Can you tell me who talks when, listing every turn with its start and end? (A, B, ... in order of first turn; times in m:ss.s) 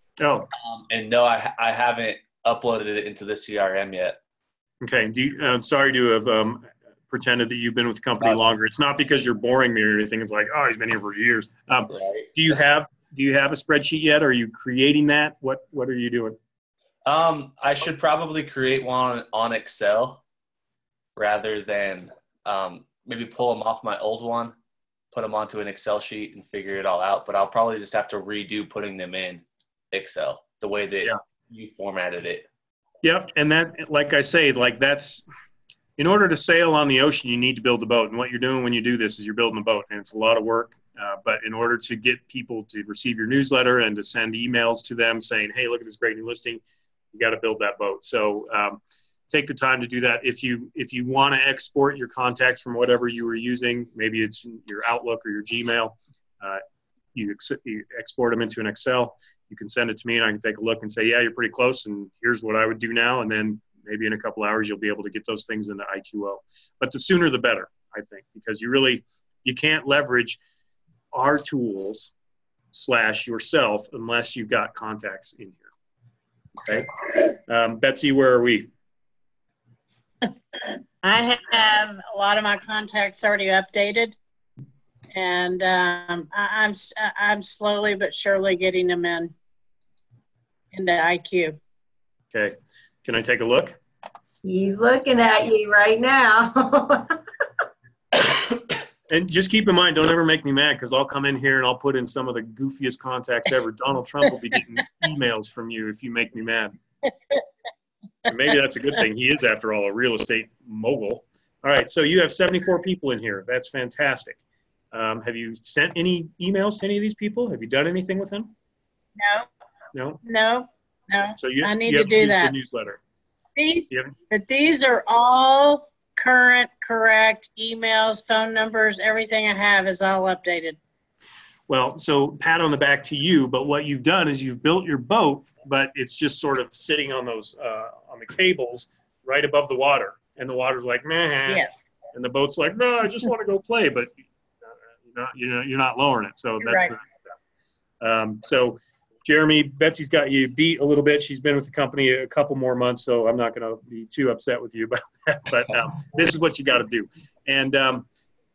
0:00.2-0:00.5 A
0:00.7-0:04.2 B
0:04.8-0:16.4 A
0:17.0-0:20.2 B
0:21.2-0:24.5 B
0:25.1-0:32.5 B
0:33.0-0:35.2 A
0:36.0-0:46.6 A
0:47.1-0:56.6 A
0:57.1-1:10.4 A
1:11.1-1:12.1 A
1:12.7-1:15.7 A
1:16.6-1:18.7 A
1:21.0-1:24.2 C
1:25.1-1:29.3 C
1:30.7-1:31.6 C
1:32.3-1:33.8 A
1:34.4-1:37.2 D
1:39.1-1:46.8 A
1:48.2-1:54.4 A
1:54.9-1:58.5 A
1:59.2-1:59.5 C
1:59.9-2:00.2 A
2:00.2-2:02.5 C
2:01.4-2:03.0 A
2:03.6-2:10.8 C
2:11.7-2:24.1 A
2:21.5-2:21.7 C
2:25.1-2:27.3 A
2:26.6-2:26.9 C
2:28.0-2:38.0 A